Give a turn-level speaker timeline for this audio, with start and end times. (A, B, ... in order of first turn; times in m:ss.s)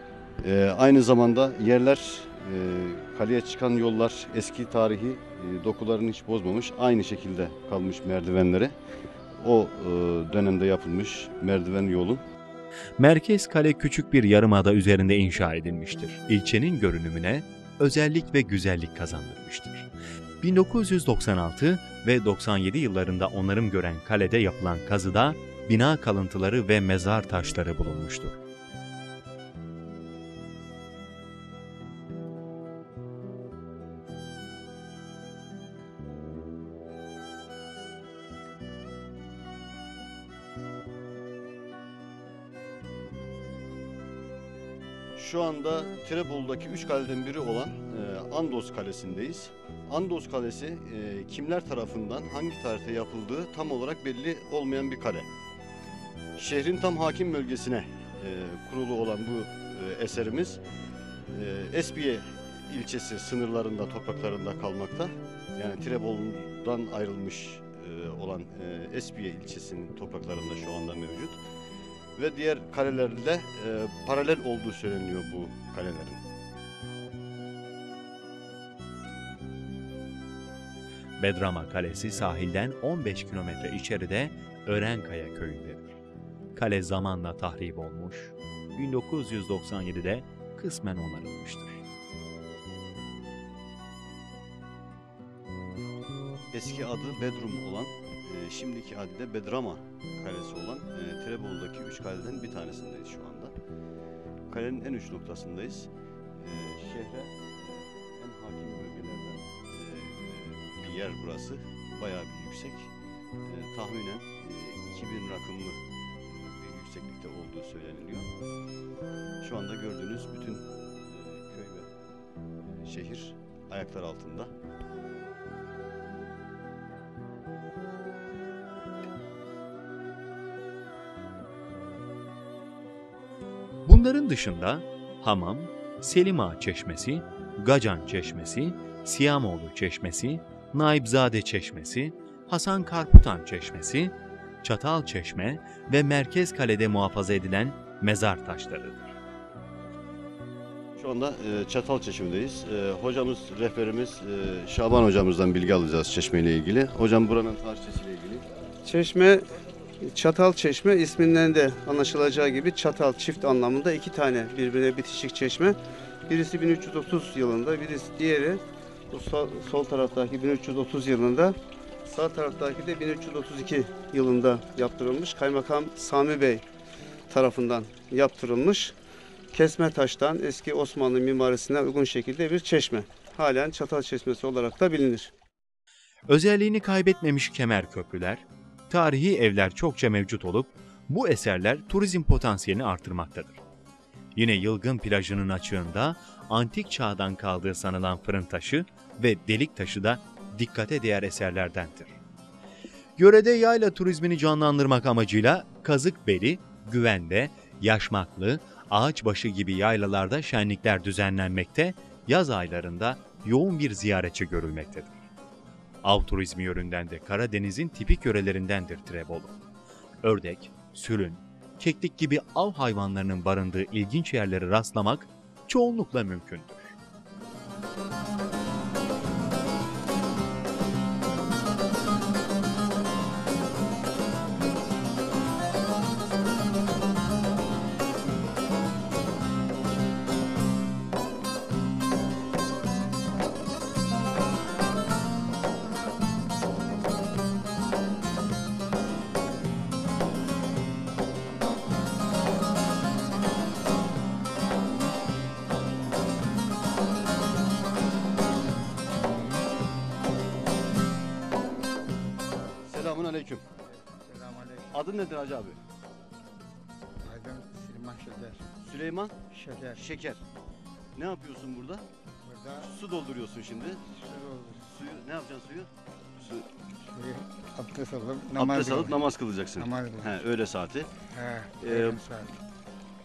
0:00.4-0:08.8 A
0:09.4-0:12.2 A
0:13.0-0:19.9 B
0:20.4-0:28.4 B
0:45.2-0:55.2 A
0:56.4-1:00.6 A
1:01.3-1:11.4 A
1:12.2-1:16.2 A
1:21.2-1:26.0 B
1:26.5-1:31.8 B
1:36.5-1:43.5 A
1:44.5-1:52.9 A
1:53.4-1:58.3 A
1:59.4-2:01.9 A
2:02.7-2:04.5 A
2:13.8-2:29.1 B
2:31.0-2:38.4 A
2:38.8-2:39.4 C
2:40.0-2:45.8 C
2:46.3-2:51.5 C
2:52.0-2:56.6 C
2:57.3-2:58.9 C
2:59.5-3:05.3 C
3:06.3-3:13.6 B
3:14.4-3:22.2 B
3:23.2-3:35.1 B
3:36.0-3:39.6 B
3:40.2-3:46.9 B
4:22.8-4:23.6 A
4:24.1-4:25.0 D
4:24.9-4:25.8 A
4:27.2-4:28.6 D
4:28.8-4:29.3 A
4:29.5-4:30.0 D
4:30.0-4:30.4 A
4:31.2-4:32.0 A
4:32.4-4:32.9 D
4:32.8-4:34.0 A
4:34.0-4:34.8 D
4:34.8-4:36.6 A
4:37.1-4:39.2 D
4:38.6-4:41.1 A
4:39.8-4:40.4 D
4:41.3-4:42.6 D
4:41.8-4:42.2 A